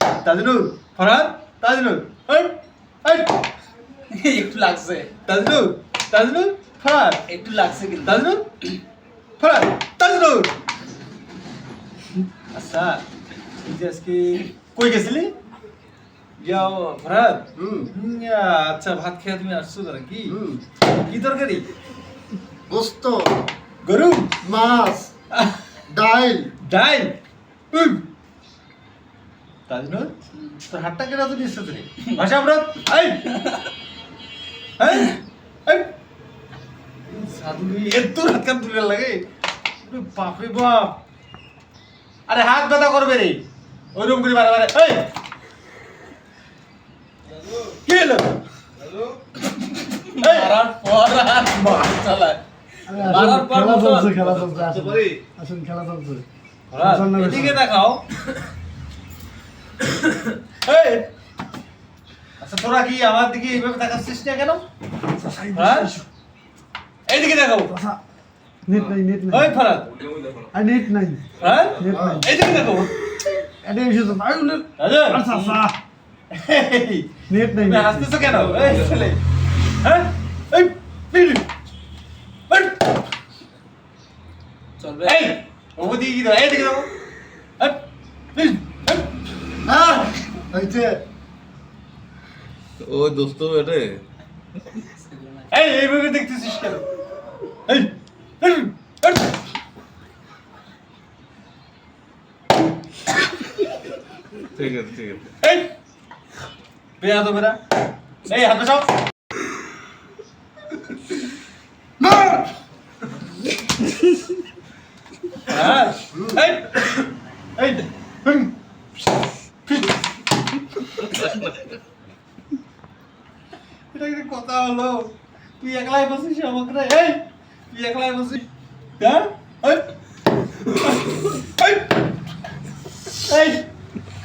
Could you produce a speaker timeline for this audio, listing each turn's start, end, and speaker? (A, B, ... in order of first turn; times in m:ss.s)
0:00.2-0:03.4 A
0:04.1-0:05.1 B
0:05.3-0:07.2 A
0:07.3-0:08.2 B
0:08.0-0:08.5 A
0:09.4-0:10.5 A
0:12.5-0:13.0 A
0:13.6-0:15.3 A
0:16.4-0:20.4 A
0:17.6-0:17.9 C
0:20.3-0:20.6 C
0:20.9-0:21.7 A
0:22.7-0:23.5 C
0:23.8-0:24.3 A
0:24.4-0:25.1 C
0:25.9-0:26.5 C
0:26.6-0:27.2 A
0:27.7-0:28.0 A
0:29.7-0:33.4 A
0:33.3-0:33.6 B
0:34.8-0:35.9 A
0:37.1-0:39.2 A
0:39.8-0:41.0 A
0:42.3-0:43.4 A
0:44.0-0:45.1 A
0:47.7-0:48.4 A
0:49.5-0:54.4 B
0:50.2-0:50.6 A
0:52.9-0:56.2 D
0:54.4-0:55.4 C
0:56.7-0:58.0 A
0:56.8-0:57.6 C
1:00.6-1:01.1 A
1:02.4-1:04.6 A
1:05.2-1:06.0 D
1:05.5-1:06.0 A
1:07.1-1:07.8 A
1:08.7-1:09.5 D
1:09.3-1:09.9 A
1:10.1-1:10.5 E
1:10.5-1:11.2 D
1:11.4-1:12.9 A
1:11.8-1:12.2 D
1:11.8-1:12.3 C
1:13.6-1:15.8 D
1:14.8-1:15.3 A
1:15.3-1:15.6 B
1:16.3-1:19.2 A
1:17.3-1:18.4 D
1:19.8-1:21.5 A
1:22.5-1:23.0 A
1:24.8-1:25.3 B
1:25.0-1:26.9 A
1:27.6-1:29.1 A
1:29.7-1:31.0 C
1:32.8-1:34.0 E
1:34.8-1:35.5 B
1:35.5-1:36.8 A
1:37.7-1:39.4 A
1:44.6-1:45.3 E
1:45.4-1:45.7 A
1:47.0-1:47.6 A
1:48.3-1:48.9 A
1:52.1-1:52.4 C
1:55.5-1:57.0 A
1:57.6-1:58.6 A
1:59.6-2:00.0 A
2:03.9-2:08.5 A
2:09.0-2:09.9 A
2:10.7-2:11.9 A
2:13.2-2:13.7 A